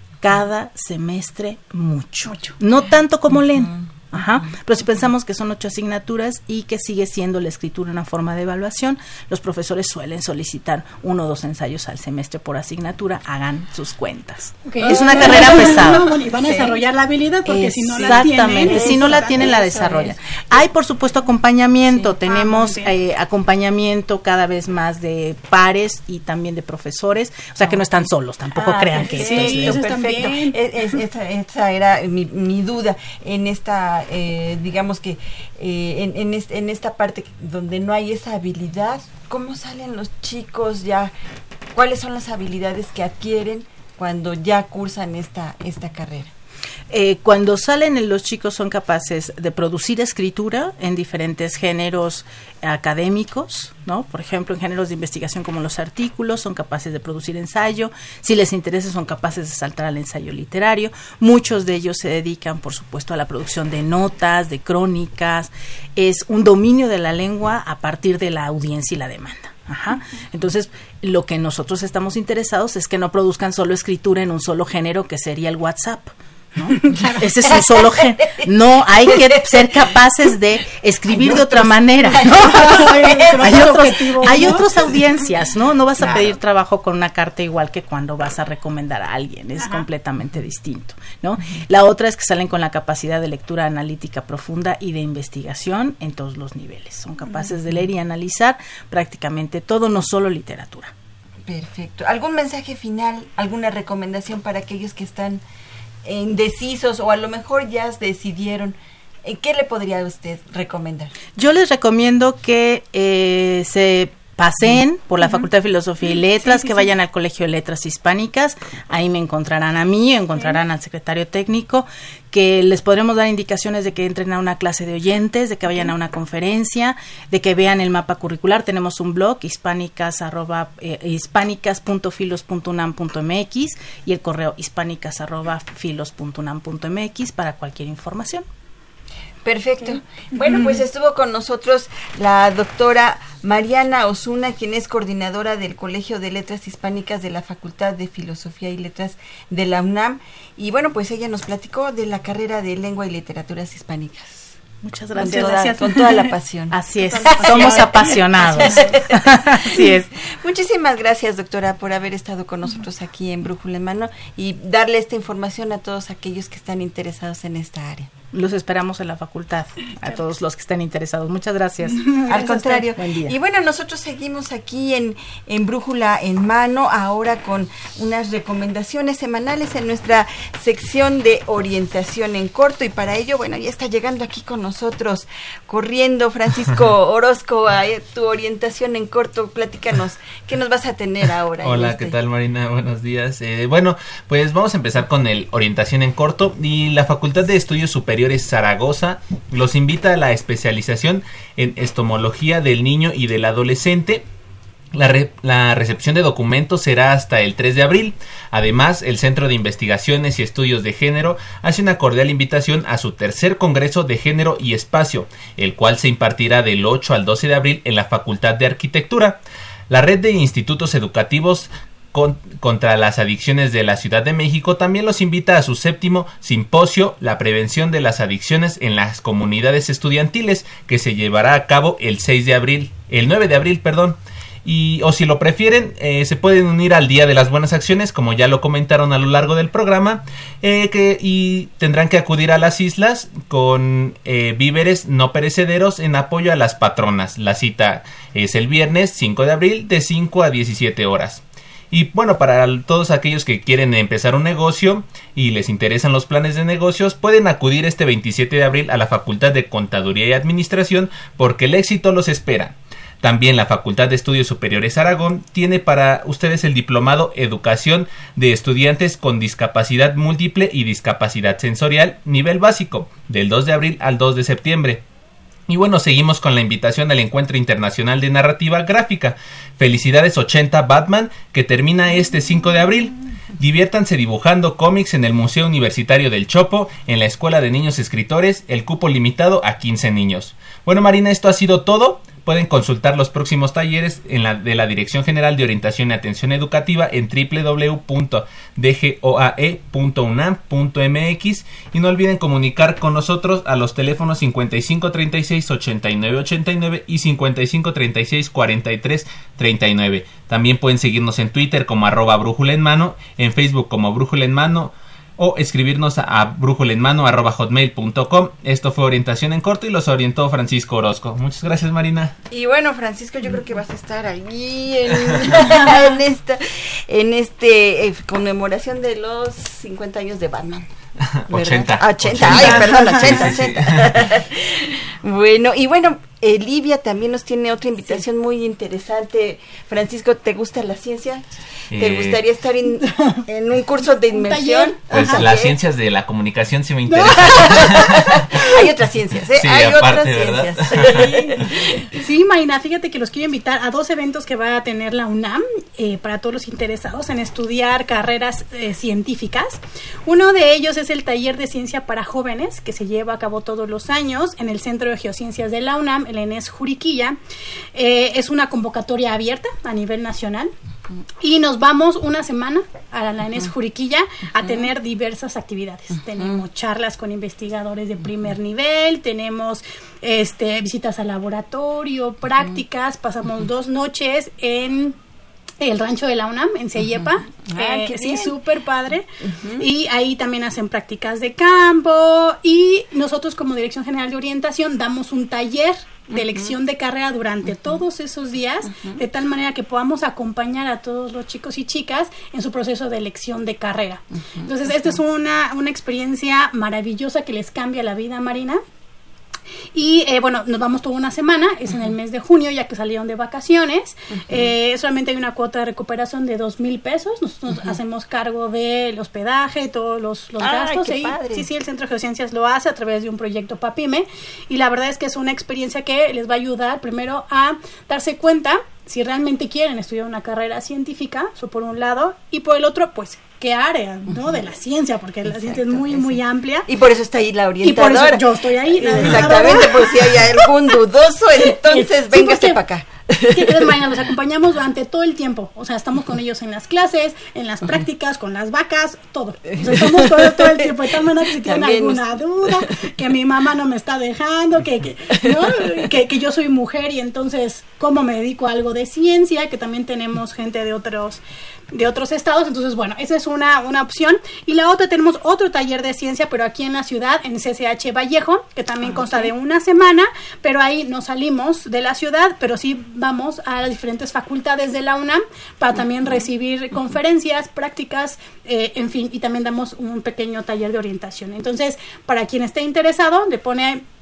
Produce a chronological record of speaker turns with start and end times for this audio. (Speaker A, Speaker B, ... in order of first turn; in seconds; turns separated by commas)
Speaker A: 0.2-16.1, Speaker B: 2.2-2.6, Speaker B: 14.6-19.5, Speaker C: 14.8-15.8, Speaker C: 16.4-16.8, Speaker C: 17.4-20.6, Speaker A: 17.9-29.9, Speaker B: 21.9-22.9, Speaker B: 28.5-30.6, Speaker C: 28.8-41.1, Speaker C: 41.7-46.3, Speaker A: 46.9-100.9, Speaker B: 76.7-77.2, Speaker B: 81.2-85.0, Speaker C: 82.3-84.5, Speaker B: 86.0-86.3, Speaker B: 89.6-89.9, Speaker C: 101.5-105.4, Speaker C: 106.0-111.1, Speaker A: 111.3-138.4, Speaker B: 115.2-115.5, Speaker B: 116.4-116.9, Speaker C: 139.4-154.6, Speaker B: 140.3-140.8, Speaker A: 154.8-155.8, Speaker B: 155.1-156.3, Speaker C: 155.1-168.1, Speaker A: 156.7-160.1, Speaker B: 157.2-159.0, Speaker A: 168.3-173.3, Speaker B: 171.9-172.8, Speaker C: 172.2-192.1, Speaker D: 191.6-204.2, Speaker D: 204.9-219.4, Speaker D: 219.9-275.0, Speaker D: 275.7-322.3, Speaker C: 322.5-330.9, Speaker D: 331.5-334.2, Speaker C: 331.5-345.8, Speaker B: 332.9-333.2, Speaker D: 341.9-342.4, Speaker B: 344.3-345.5, Speaker D: 345.1-348.6, Speaker B: 347.1-348.1, Speaker C: 347.4-352.1, Speaker D: 349.6-351.7, Speaker B: 350.9-367.4, Speaker B: 367.9-370.7, Speaker B: 371.4-385.1, Speaker B: 385.8-389.2, Speaker C: 387.6-388.6, Speaker C: 389.4-389.9, Speaker B: 389.8-408.8, Speaker C: 396.3-396.7, Speaker B: 409.9-436.9, Speaker C: 420.6-421.7, Speaker C: 435.4-443.9, Speaker B: 437.8-440.3, Speaker B: 441.7-442.8, Speaker B: 443.5-484.0, Speaker C: 450.2-450.9, Speaker C: 451.5-452.3, Speaker C: 469.0-469.5